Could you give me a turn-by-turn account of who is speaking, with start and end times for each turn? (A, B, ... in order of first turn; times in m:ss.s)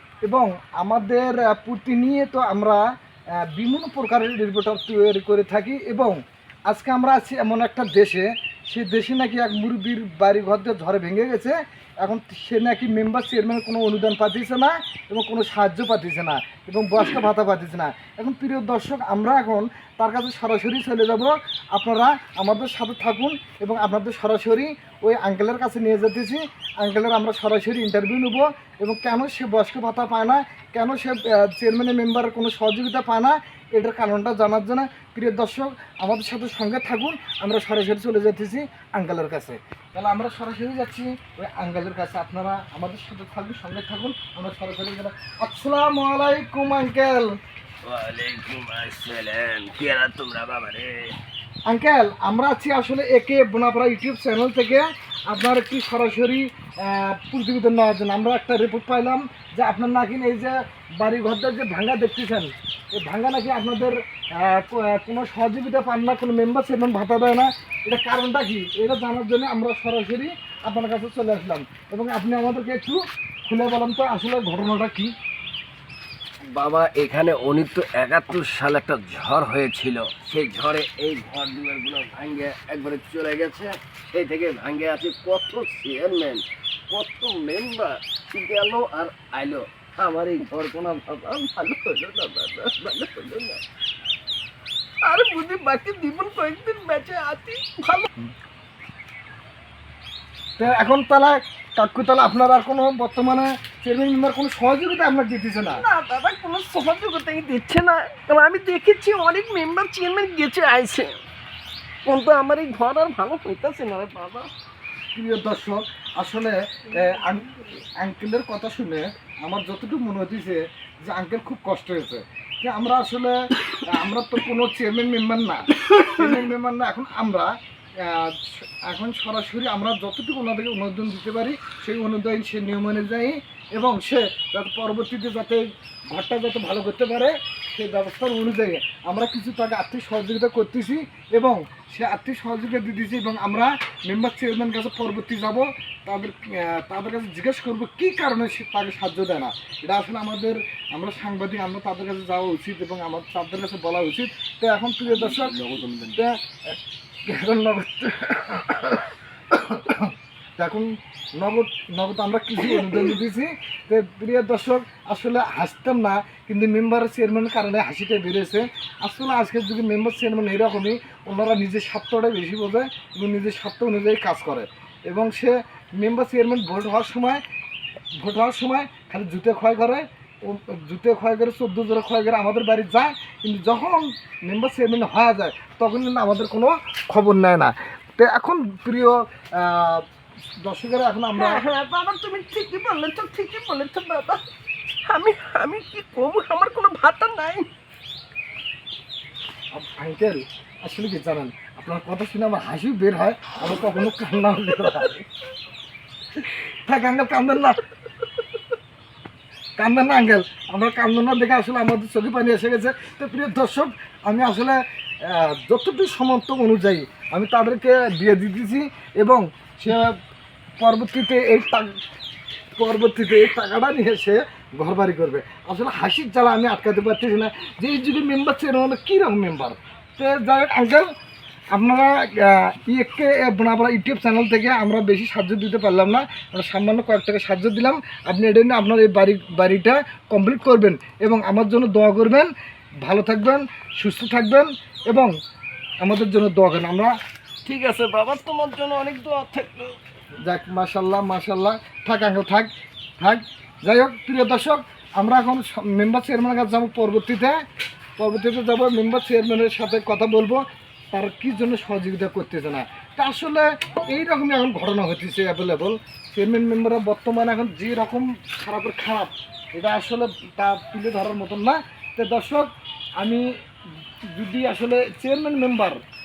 0:00.2-0:02.8 A
0:03.4-0:47.4 A
0:47.8-0:51.1 B
0:51.7-1:15.1 A
1:16.5-1:33.6 B
1:35.0-1:38.1 C
1:40.6-1:45.8 A
1:45.7-1:51.1 C
1:52.1-1:54.5 C
1:55.1-2:07.5 A
2:08.0-2:35.6 A
2:35.0-2:36.2 B
2:36.1-2:57.4 A
2:58.2-3:10.0 A
3:10.6-3:11.6 A
3:11.3-3:14.4 C
3:15.1-3:17.7 C
3:19.7-3:25.2 A
3:26.8-3:27.8 A
3:29.8-3:40.2 A
3:40.8-3:42.0 A
3:42.8-3:51.1 A
3:51.7-4:02.5 A
4:03.0-4:05.3 A
4:06.0-4:07.1 A
4:07.7-4:10.0 B
4:10.4-4:17.6 A
4:18.2-4:33.5 A
4:34.3-4:36.0 A